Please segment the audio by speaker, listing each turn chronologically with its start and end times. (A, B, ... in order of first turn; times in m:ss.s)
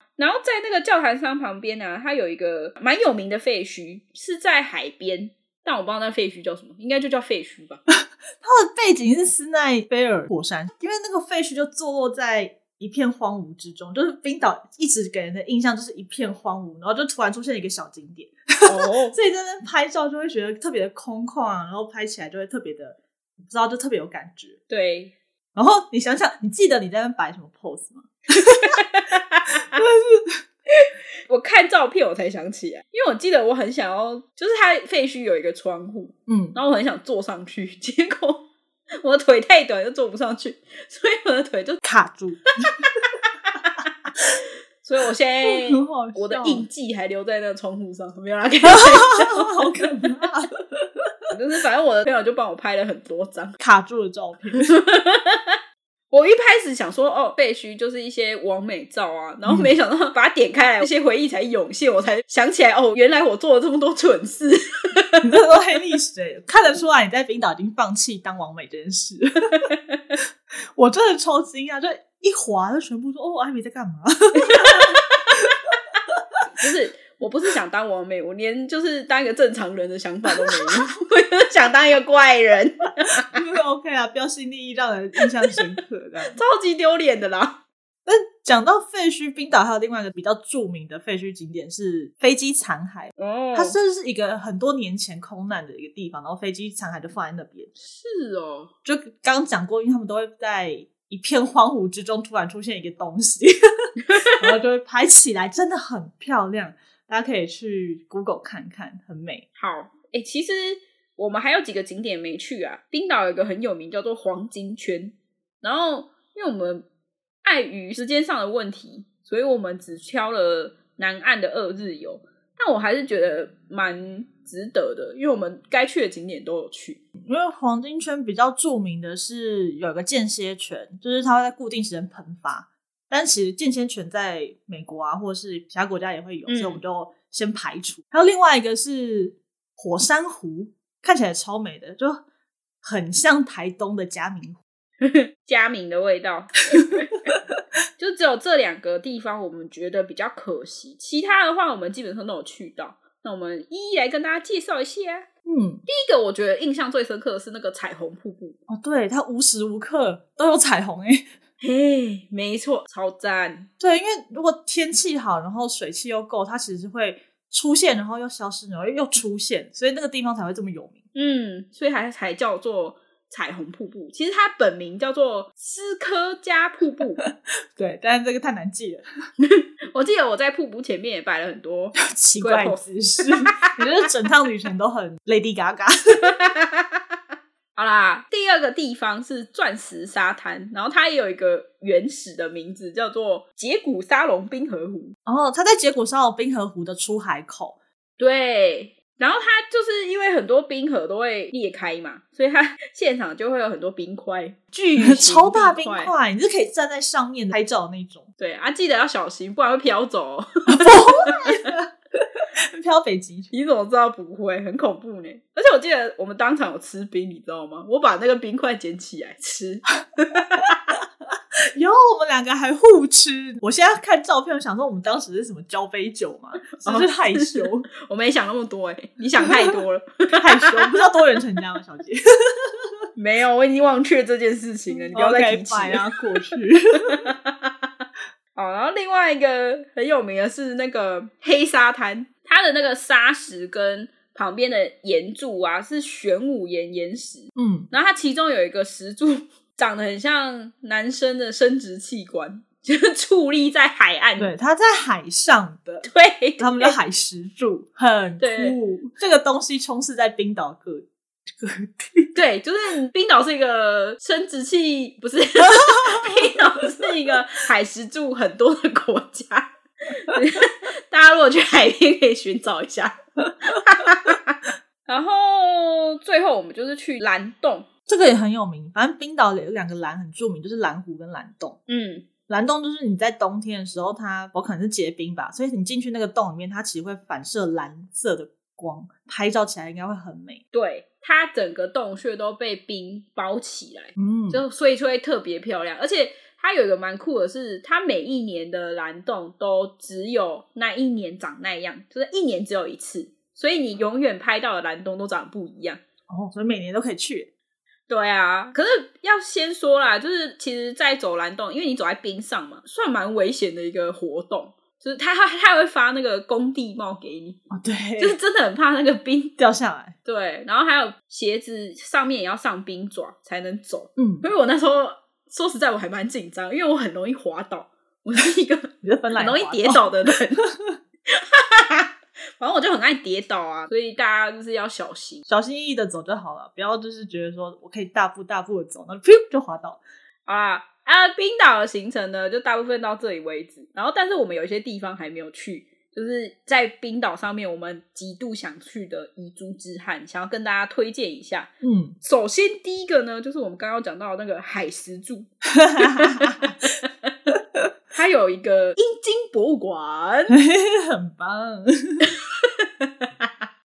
0:00.2-0:07.8 A
0:07.9-0:24.6 B
0:18.6-0:19.2 A
0:24.7-0:25.1 A
0:25.5-0:28.8 B
0:28.5-0:29.8 A
0:29.7-0:30.4 B
0:30.7-0:38.5 A
0:36.3-0:36.6 B
0:39.0-0:41.8 A
0:41.8-0:42.4 B
0:42.6-0:43.7 A
0:44.8-0:49.9 A
0:45.4-0:46.6 B
0:48.7-0:51.1 B
0:51.3-0:53.6 A
0:53.6-0:54.7 B
0:54.6-0:55.6 A
0:56.1-1:05.2 A
0:59.4-0:59.7 B
1:05.2-1:09.7 B
1:09.6-1:10.0 A
1:10.7-1:15.5 B
1:14.4-1:15.4 A
1:16.5-1:23.3 A
1:20.5-1:20.7 B
1:23.3-1:26.4 B
1:26.3-1:27.6 A
1:28.0-1:37.7 B
1:33.2-1:33.8 A
1:37.8-1:38.7 A
1:38.8-1:49.4 B
1:49.6-1:56.8 A
1:57.4-2:07.0 A
2:07.2-2:22.2 B
2:16.5-2:16.8 A
2:22.8-2:24.6 B
2:25.0-2:27.3 A
2:28.0-2:35.3 A
2:35.4-2:35.8 B
2:35.8-2:38.6 A
2:38.7-2:41.3 B
2:41.6-2:43.7 A
2:43.8-2:51.0 B
2:51.1-2:57.2 A
2:57.2-2:59.0 B
2:59.4-3:03.8 A
3:02.1-3:06.2 B
3:06.3-3:06.8 A
3:07.7-3:15.2 A
3:15.2-3:17.8 B
3:18.2-3:26.1 A
3:25.0-3:28.3 B
3:28.4-3:31.7 A
3:30.7-3:33.5 B
3:33.5-3:41.0 A
3:41.7-3:47.9 B
3:46.8-3:50.9 A
3:49.4-3:49.7 B
3:50.4-3:52.9 B
3:53.2-3:56.1 A
3:55.1-3:57.2 B
3:57.0-3:57.7 A
3:58.5-4:14.5 A
4:07.6-4:07.9 B
4:14.4-4:22.3 B
4:16.0-4:17.0 A
4:18.4-4:18.8 A
4:22.3-4:37.9 A
4:25.7-4:26.4 B
4:38.1-4:41.8 B
4:41.9-4:42.2 A
4:42.5-4:50.6 B
4:50.7-5:06.0 A
4:54.2-4:54.6 B
5:06.3-5:07.5 B
5:08.1-5:17.6 A
5:17.7-5:18.4 B
5:18.2-5:19.6 A
5:19.6-5:20.2 B
5:20.2-5:30.6 A
5:24.2-5:24.4 B
5:29.0-5:30.0 B
5:30.6-5:31.0 B
5:31.3-5:35.4 A
5:35.5-5:40.0 B
5:40.4-5:57.3 A
5:51.8-5:52.2 B
5:55.7-5:56.7 B
5:58.1-6:00.6 A
6:00.5-6:02.2 B
6:02.6-6:03.5 A